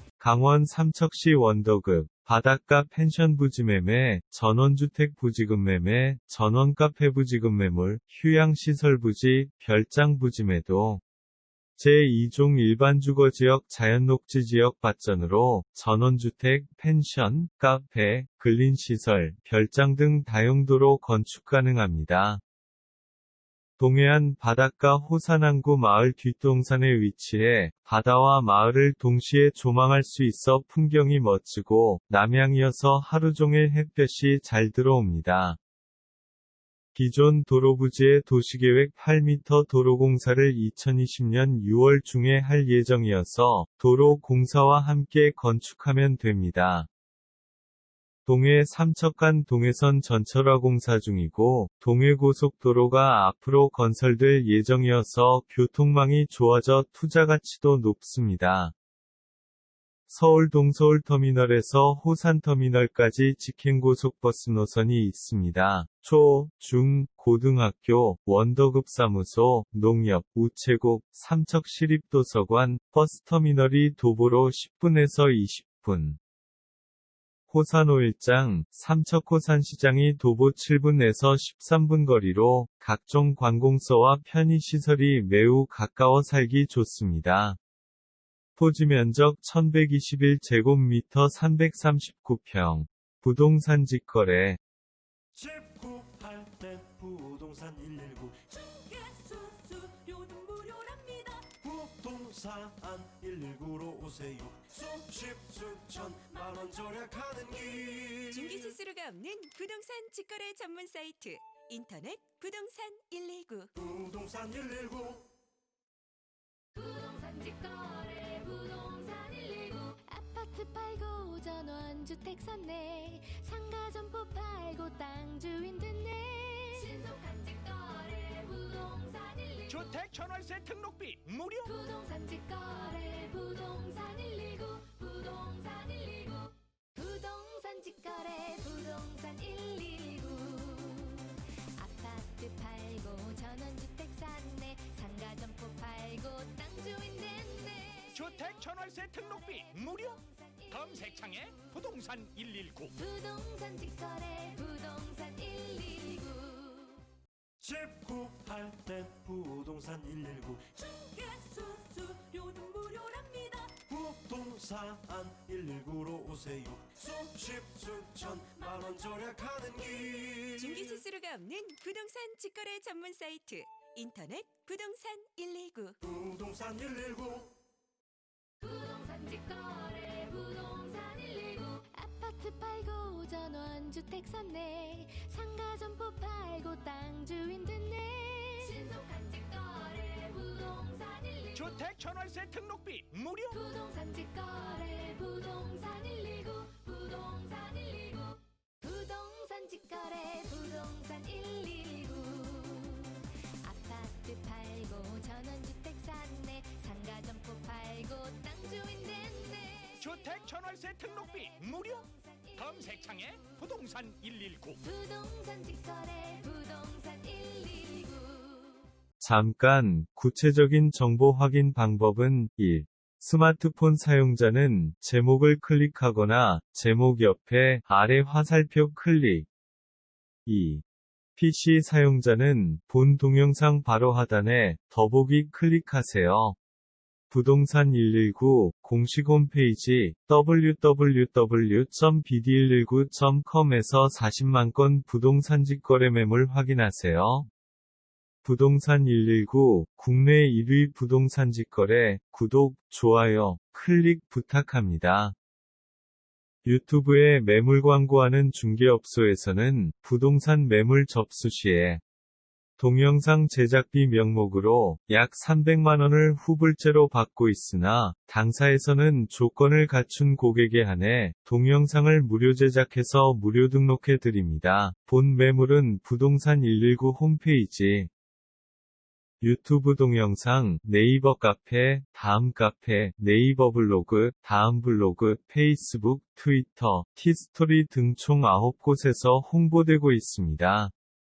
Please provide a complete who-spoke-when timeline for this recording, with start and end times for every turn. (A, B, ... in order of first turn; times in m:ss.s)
0:00.2-0:11.0 A
0:11.8-0:22.4 A
0:23.8-0:35.6 A
0:37.0-0:46.9 A
0:48.3-0:58.7 A
1:00.1-1:16.2 A
1:17.5-1:27.6 A
1:28.6-1:34.6 A
1:35.3-1:38.6 B
1:38.6-1:41.5 C
1:41.5-1:48.7 B
1:48.3-1:53.7 C
1:53.8-1:55.2 B
1:56.8-2:09.8 D
2:09.7-2:11.7 E
2:11.6-2:28.3 D
2:28.1-2:33.0 E
2:29.3-2:31.7 D
2:32.9-2:37.0 D
2:37.6-2:40.8 B
2:40.8-2:43.7 C
2:43.8-2:51.0 B
2:50.6-2:56.0 C
2:56.0-2:57.5 B
2:58.6-3:11.6 D
3:11.5-3:13.6 E
3:13.5-3:33.6 D
3:30.0-3:32.0 E
3:32.6-3:34.8 E
3:34.8-3:38.8 D
3:39.2-3:49.5 A
3:50.5-3:50.8 A
3:51.4-3:56.6 A
3:57.3-4:07.5 A
4:08.4-4:15.4 A
4:16.6-4:22.0 A
4:22.8-4:38.1 A
4:39.4-4:50.9 A